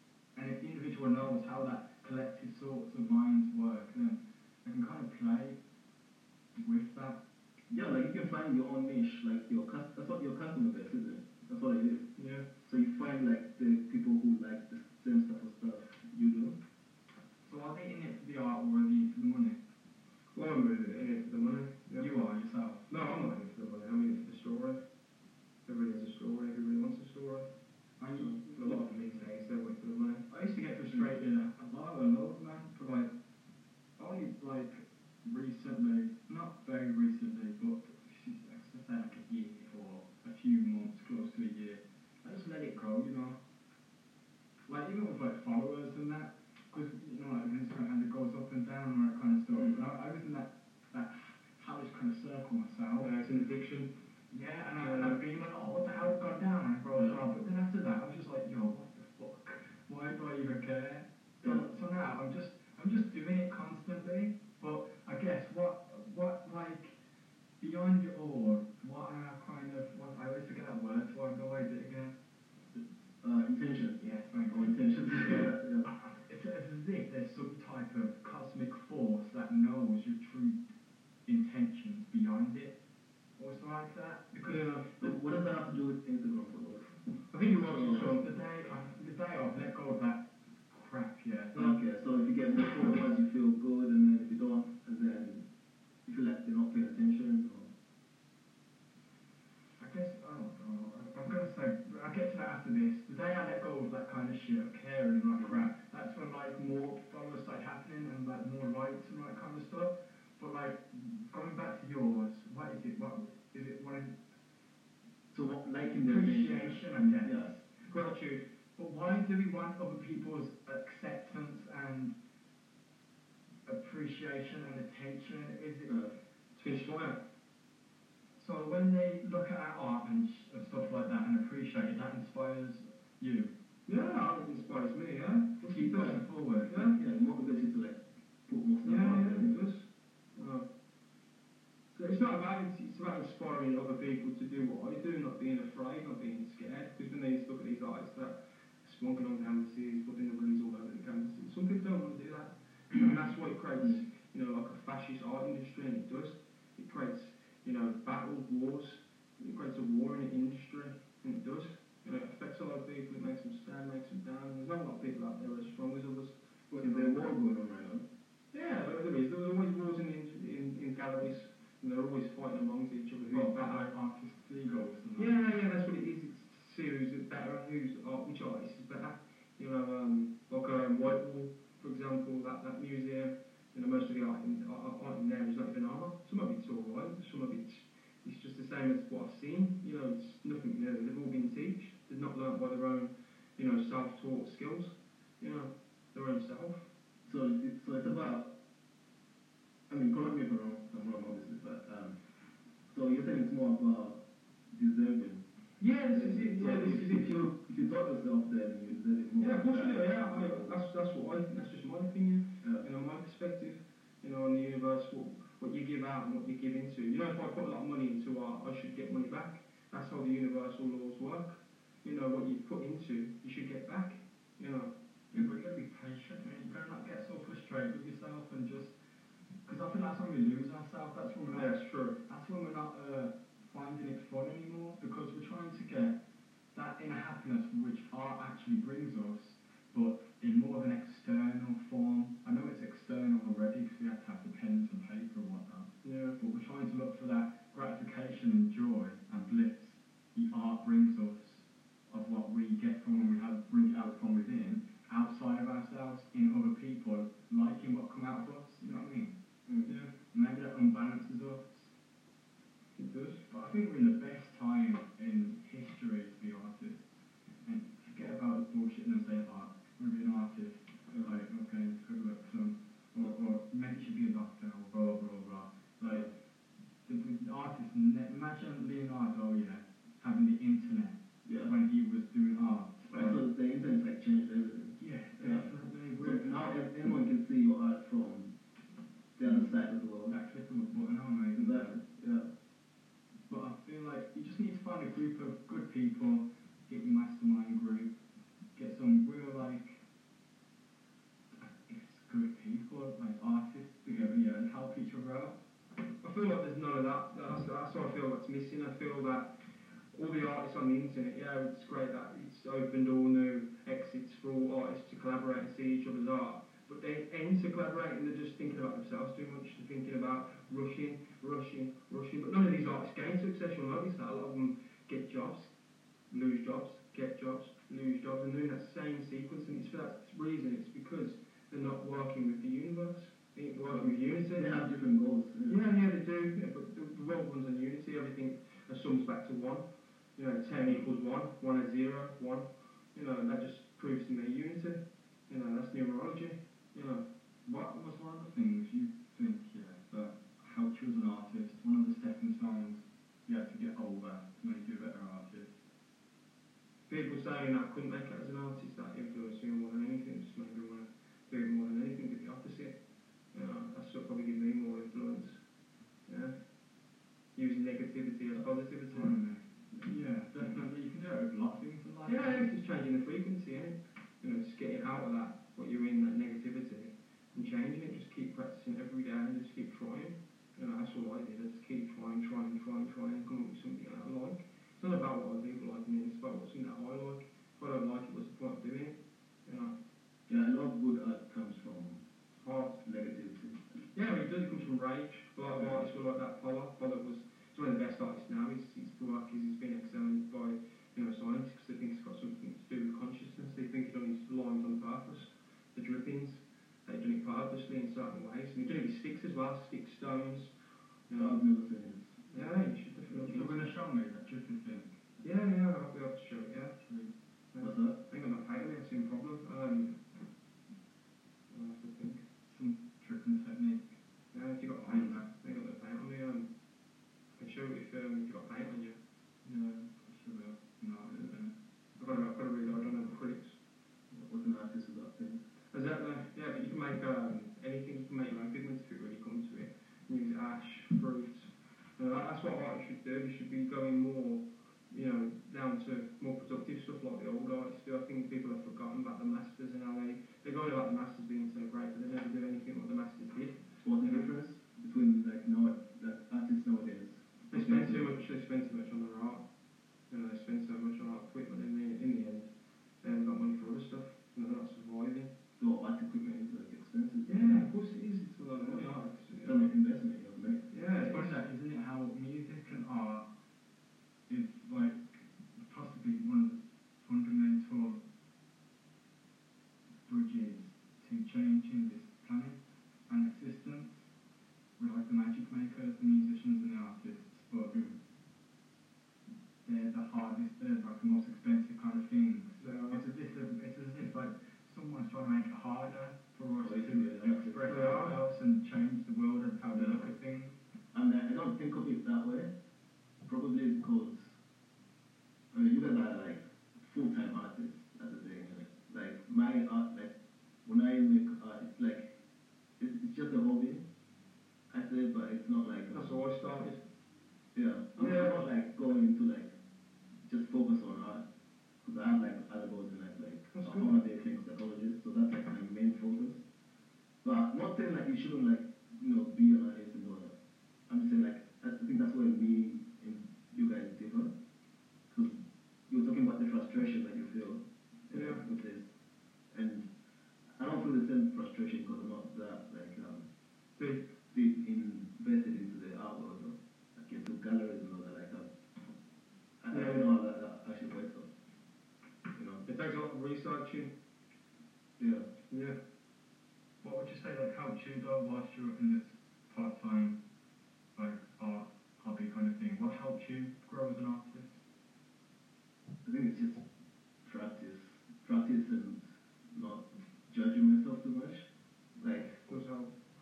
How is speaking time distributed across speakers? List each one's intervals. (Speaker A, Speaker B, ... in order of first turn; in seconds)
Speaker A: 0.3-5.6, 6.6-7.2, 17.5-19.6, 22.0-22.9, 28.0-28.9, 30.3-33.1, 34.0-43.4, 44.7-53.1, 54.3-67.0, 67.6-72.2, 74.0-80.6, 81.3-82.8, 83.4-84.8, 87.8-91.8, 99.8-114.2, 116.0-117.6, 118.8-122.2, 123.7-126.0, 128.4-133.5, 135.6-136.9, 173.3-175.4, 225.3-228.9, 229.7-236.2, 236.7-259.4, 260.3-261.9, 263.5-267.0, 267.6-276.3, 277.1-283.4, 285.0-286.7, 290.3-292.0, 293.5-298.2, 298.8-300.0, 301.6-305.6, 347.7-355.8, 368.6-372.7, 413.3-415.2, 417.0-417.3, 422.7-424.1, 425.0-425.5, 430.1-431.7, 471.2-473.5, 474.5-478.2, 480.3-482.8, 483.3-484.2, 485.0-488.0, 489.8-500.8, 557.0-560.4, 561.2-564.8
Speaker B: 7.7-12.1, 12.7-16.6, 61.4-61.7, 73.2-75.9, 85.0-87.0, 87.6-88.2, 91.5-95.5, 96.0-97.7, 115.3-117.6, 125.9-126.2, 136.7-139.6, 166.7-168.1, 197.3-198.6, 199.9-202.2, 202.9-205.4, 206.1-210.8, 281.4-281.7, 283.1-285.7, 286.2-288.6, 289.4-290.4, 291.6-292.5, 333.9-335.8, 390.5-392.2, 393.1-394.0, 395.7-396.0, 411.4-412.4, 417.8-418.2, 434.3-435.6, 454.0-458.3, 465.8-467.9, 469.6-470.9, 496.8-498.2, 500.0-500.2, 501.1-502.7, 503.4-504.6, 505.7-512.3, 513.0-514.0, 514.9-516.3, 517.7-519.7, 520.5-521.4, 522.0-526.6, 527.4-530.5, 531.1-534.5, 535.3-539.1, 539.7-540.1, 540.8-543.5, 544.5-548.7, 549.8-551.5, 552.5-552.8, 555.2-555.5, 566.2-566.9, 567.4-572.7
Speaker C: 12.2-12.5, 20.3-22.1, 22.9-24.8, 25.6-27.5, 28.1-30.3, 53.0-53.9, 54.8-55.2, 84.4-84.9, 87.3-88.2, 117.8-118.5, 126.6-127.2, 133.9-137.0, 138.8-140.7, 141.9-167.2, 168.5-173.9, 175.2-196.9, 205.8-207.4, 209.4-224.9, 231.5-232.2, 246.0-246.4, 259.9-260.1, 263.0-263.4, 306.2-309.6, 310.1-325.7, 326.3-334.9, 335.7-339.9, 340.4-347.2, 357.1-363.0, 363.5-365.6, 366.3-366.6, 367.6-369.4, 372.3-390.0, 392.6-393.0, 394.1-410.7, 411.3-411.6, 412.5-413.9, 415.4-416.9, 417.7-420.2, 421.7-422.4, 424.5-426.7, 427.6-430.1, 432.2-433.7, 435.9-454.4, 457.7-459.6, 460.3-462.7, 463.2-465.5, 467.5-469.9, 470.9-471.6, 492.8-493.3, 497.9-498.4, 516.1-517.0, 518.2-518.6, 523.7-524.2, 538.3-538.6, 544.0-544.3, 549.9-550.3, 552.9-554.1, 555.7-556.0, 572.7-573.1